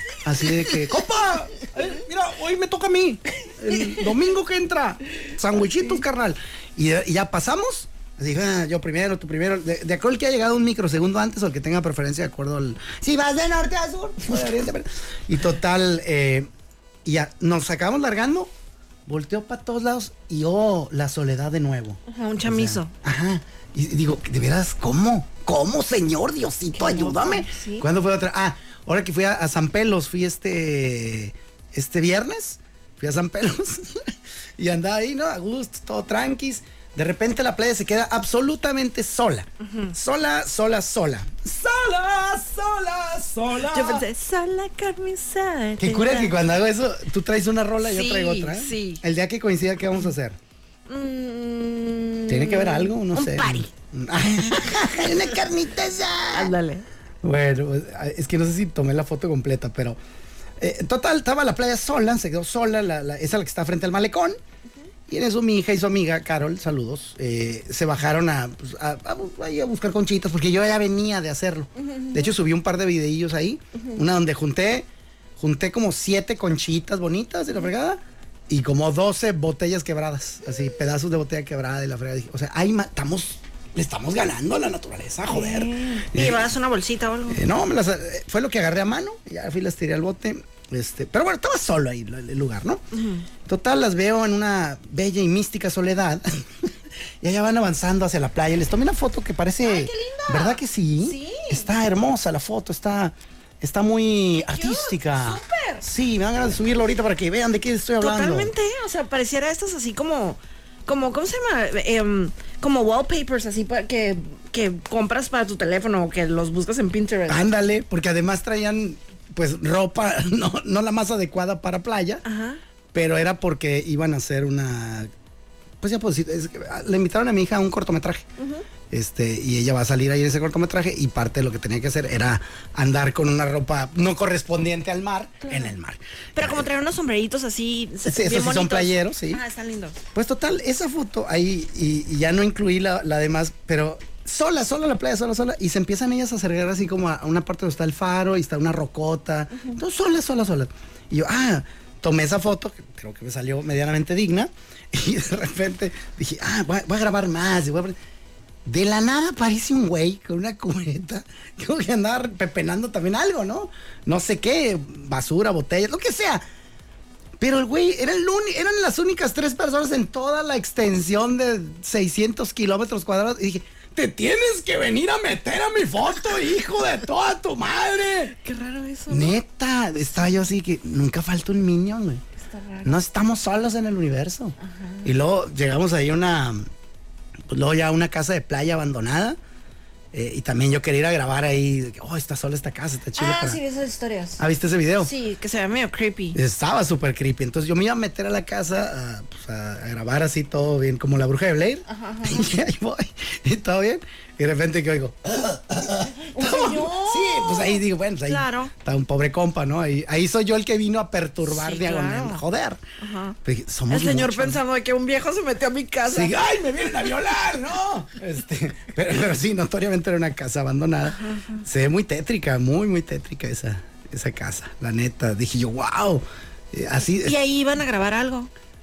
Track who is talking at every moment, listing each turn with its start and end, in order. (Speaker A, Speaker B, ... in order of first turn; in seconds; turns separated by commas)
Speaker A: 0.2-16.5, Speaker A: 17.1-18.5, Speaker A: 19.1-44.1, Speaker B: 22.1-22.9, Speaker B: 26.7-27.9, Speaker B: 39.6-39.9, Speaker B: 43.7-46.4, Speaker A: 45.8-50.4, Speaker B: 47.8-49.0, Speaker B: 50.9-53.7, Speaker A: 52.3-56.5, Speaker B: 56.3-56.9, Speaker A: 57.2-60.0, Speaker A: 60.6-64.4, Speaker A: 65.1-74.9, Speaker B: 71.8-72.3, Speaker A: 75.4-86.5, Speaker B: 85.3-87.5, Speaker A: 87.3-92.8, Speaker B: 92.9-93.3, Speaker A: 93.5-108.5, Speaker B: 99.6-101.7, Speaker B: 104.4-105.9, Speaker B: 108.0-117.4, Speaker A: 117.3-122.2, Speaker B: 122.2-122.6, Speaker A: 122.9-125.1, Speaker A: 125.8-128.3, Speaker B: 128.4-128.7, Speaker A: 128.9-136.7, Speaker B: 135.4-135.7, Speaker B: 136.3-140.0, Speaker A: 138.1-139.4, Speaker A: 140.1-158.0, Speaker A: 158.7-166.4, Speaker A: 167.4-178.3, Speaker B: 178.3-179.4, Speaker A: 179.1-182.2, Speaker B: 182.4-182.9, Speaker A: 182.8-186.7, Speaker B: 184.6-185.1, Speaker A: 187.5-189.4, Speaker A: 190.1-193.6, Speaker B: 193.2-194.4, Speaker A: 194.4-195.1, Speaker B: 195.0-196.4, Speaker A: 196.3-212.8, Speaker B: 201.9-202.5, Speaker B: 206.2-208.7, Speaker B: 211.4-212.4, Speaker B: 213.0-213.4, Speaker A: 213.4-214.6, Speaker B: 213.9-216.4, Speaker A: 216.1-227.4, Speaker B: 221.1-221.6, Speaker B: 227.2-228.5